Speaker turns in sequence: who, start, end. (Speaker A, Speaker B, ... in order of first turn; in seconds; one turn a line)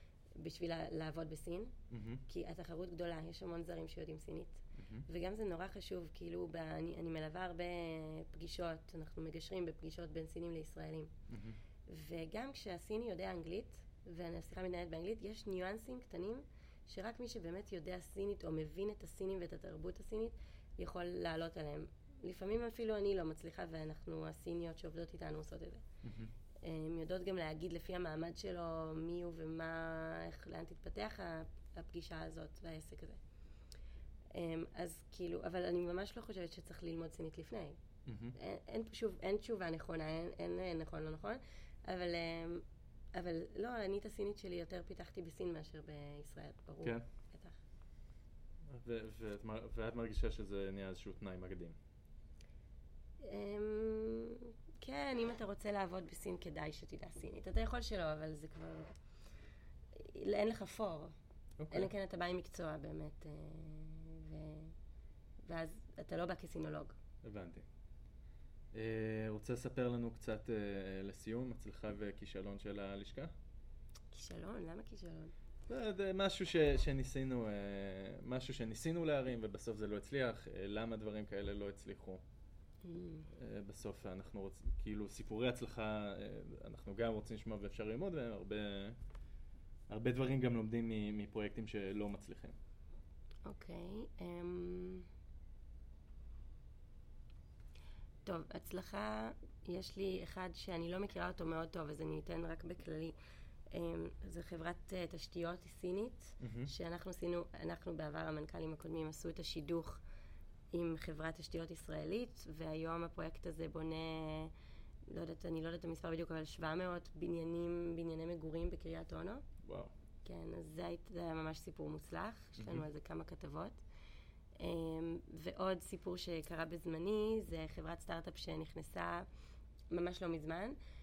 Speaker A: 0.4-1.7
Speaker B: 1.9-2.2
Speaker A: 2.3-11.1
Speaker B: 4.8-5.0
Speaker B: 11.3-11.6
Speaker A: 11.9-25.8
Speaker B: 26.0-26.3
Speaker A: 26.6-33.2
Speaker A: 34.3-37.8
Speaker B: 38.1-38.4
Speaker A: 38.4-47.6
Speaker B: 48.7-51.8
Speaker A: 53.2-58.9
Speaker A: 59.9-61.1
Speaker B: 61.6-61.9
Speaker A: 61.7-64.7
Speaker A: 65.5-67.0
Speaker B: 67.2-67.7
Speaker B: 68.7-73.3
Speaker A: 74.1-75.3
Speaker B: 75.7-82.2
Speaker A: 82.8-83.3
Speaker B: 83.3-89.0
Speaker B: 89.9-92.6
Speaker A: 93.4-95.1
Speaker A: 98.2-103.1
Speaker A: 103.7-110.0
Speaker B: 106.4-106.7
Speaker A: 110.7-114.5
Speaker A: 115.1-119.4
Speaker B: 119.6-119.9
Speaker A: 120.2-123.8
Speaker B: 122.6-122.8
Speaker A: 124.6-129.3
Speaker A: 129.9-130.8